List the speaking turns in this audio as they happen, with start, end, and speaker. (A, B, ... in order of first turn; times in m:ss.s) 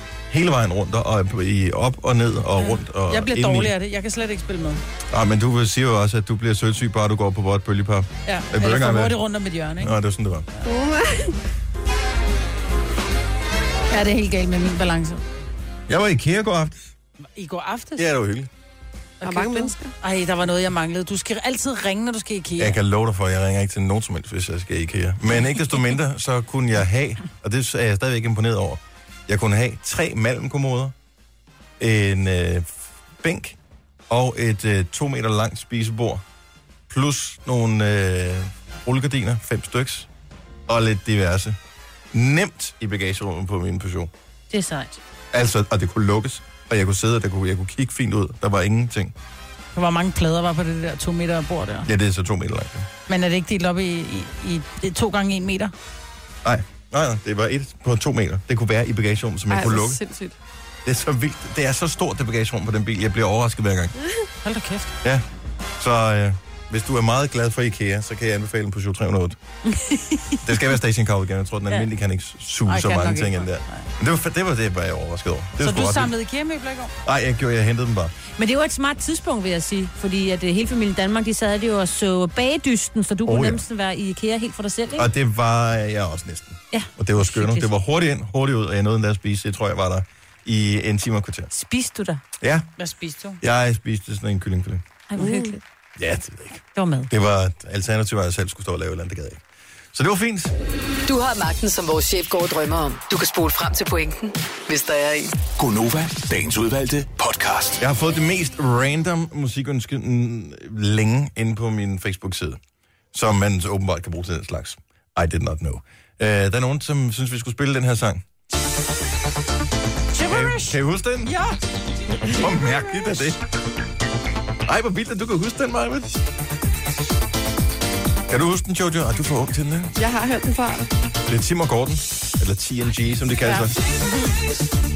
0:00.3-0:03.7 A
0:03.1-0:04.8 B
0:05.1-0:09.2 A
0:08.3-0:10.0 B
0:09.8-0:10.5 A
0:10.6-0:11.4 C
0:13.9-0:15.2 B
0:15.9-0:16.9 A
0:17.4-0:18.1 B
0:18.0-0:18.5 A
0:19.2-0:22.8 B
0:19.2-0:19.9 C
0:22.6-0:31.0 A
0:31.8-0:33.6 A
0:34.1-0:36.2 A
0:36.9-0:40.1 A
0:40.7-0:41.6 A
0:42.1-0:44.1 A
0:44.5-0:45.0 D
0:45.3-0:49.1 A
0:49.7-0:51.9 B
0:51.9-0:52.9 A
0:53.1-0:55.7 B
0:56.4-1:00.0 A
0:59.5-1:00.4 C
1:00.8-1:03.9 A
1:04.4-1:04.9 B
1:05.8-1:09.4 A
1:09.7-1:10.4 D
1:10.4-1:16.1 A
1:12.7-1:13.9 B
1:15.6-1:16.9 B
1:17.0-1:18.1 A
1:18.4-1:25.1 D
1:23.3-1:23.6 A
1:25.0-1:31.5 A
1:26.7-1:27.7 D
1:31.5-1:32.2 D
1:32.4-1:32.7 A
1:32.8-1:33.4 B
1:33.4-1:34.8 A
1:35.1-1:35.6 D
1:35.2-1:35.6 C
1:36.0-1:39.4 A
1:36.8-1:37.1 D
1:39.9-1:40.5 A
1:41.1-1:45.3 E
1:45.6-1:47.8 F
1:47.8-1:52.6 A
1:53.1-1:58.2 A
2:00.1-2:01.6 B
2:00.3-2:01.3 A
2:02.3-2:03.4 A
2:04.7-2:06.2 A
2:08.3-2:10.0 A
2:10.0-2:10.9 C
2:11.3-2:13.8 A
2:14.1-2:14.3 D